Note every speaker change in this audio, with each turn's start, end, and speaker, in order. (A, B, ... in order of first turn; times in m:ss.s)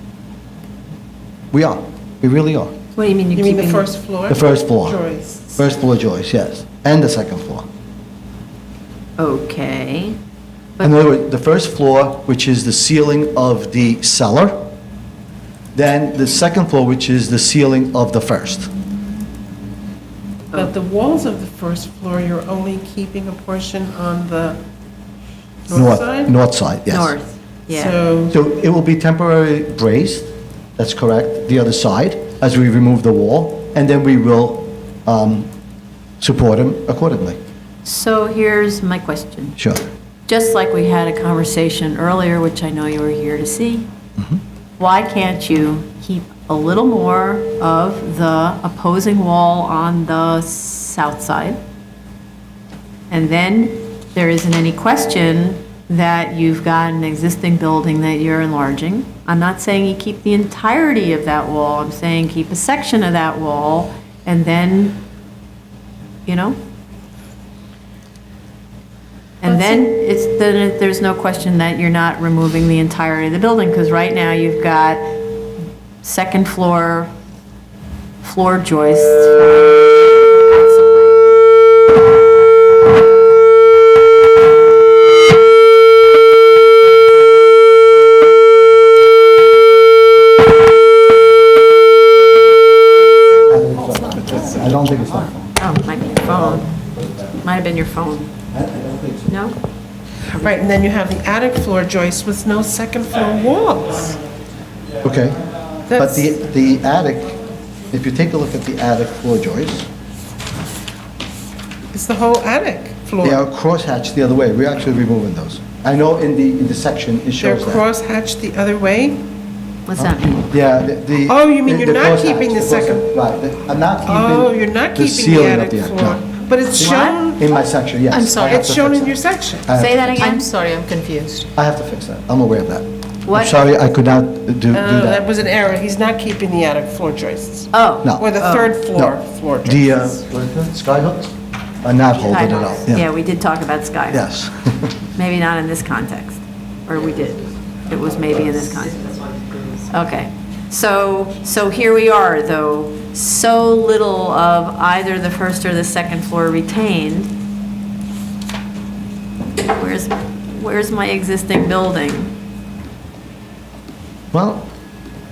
0:01.5-0:02.7 A
0:02.9-0:03.9 B
0:03.3-0:05.7 C
0:04.3-0:05.0 A
0:05.6-0:07.7 A
0:09.2-0:10.2 B
0:10.8-0:14.7 A
0:15.7-0:18.7 A
0:20.5-0:24.6 C
0:25.7-0:26.3 C
0:25.7-0:27.2 A
0:26.9-0:27.9 B
0:27.7-0:28.4 C
0:28.3-0:35.5 A
0:36.2-0:37.4 A
0:37.8-0:39.6 B
0:39.6-0:39.8 A
0:40.3-0:43.9 B
0:44.8-0:51.6 B
0:53.1-1:05.0 B
1:06.2-1:06.6 B
1:09.4-1:15.2 B
1:16.0-1:17.1 B
1:18.2-1:19.8 B
1:33.5-1:35.6 A
1:35.6-1:36.7 B
1:36.3-1:37.3 A
1:37.4-1:38.3 B
1:38.5-1:39.3 A
1:39.3-1:39.6 B
1:40.3-1:44.2 C
1:45.0-1:45.4 A
1:45.9-1:46.3 C
1:46.0-1:47.3 A
1:47.9-1:49.9 A
1:51.9-1:53.4 C
1:53.2-1:57.8 A
1:57.4-1:59.2 C
1:59.9-2:00.4 B
2:00.0-2:06.2 A
2:01.2-2:03.1 C
2:04.0-2:07.7 C
2:06.8-2:10.3 A
2:06.8-2:07.2 B
2:08.1-2:08.7 D
2:08.4-2:09.7 C
2:09.7-2:11.5 D
2:09.8-2:10.5 B
2:11.5-2:15.3 A
2:13.2-2:13.6 B
2:14.7-2:20.2 C
2:17.7-2:18.7 B
2:18.0-2:18.3 A
2:18.9-2:23.1 A
2:22.2-2:24.2 B
2:24.1-2:25.0 A
2:25.1-2:37.3 B
2:39.6-2:42.3 B
2:44.3-2:44.7 A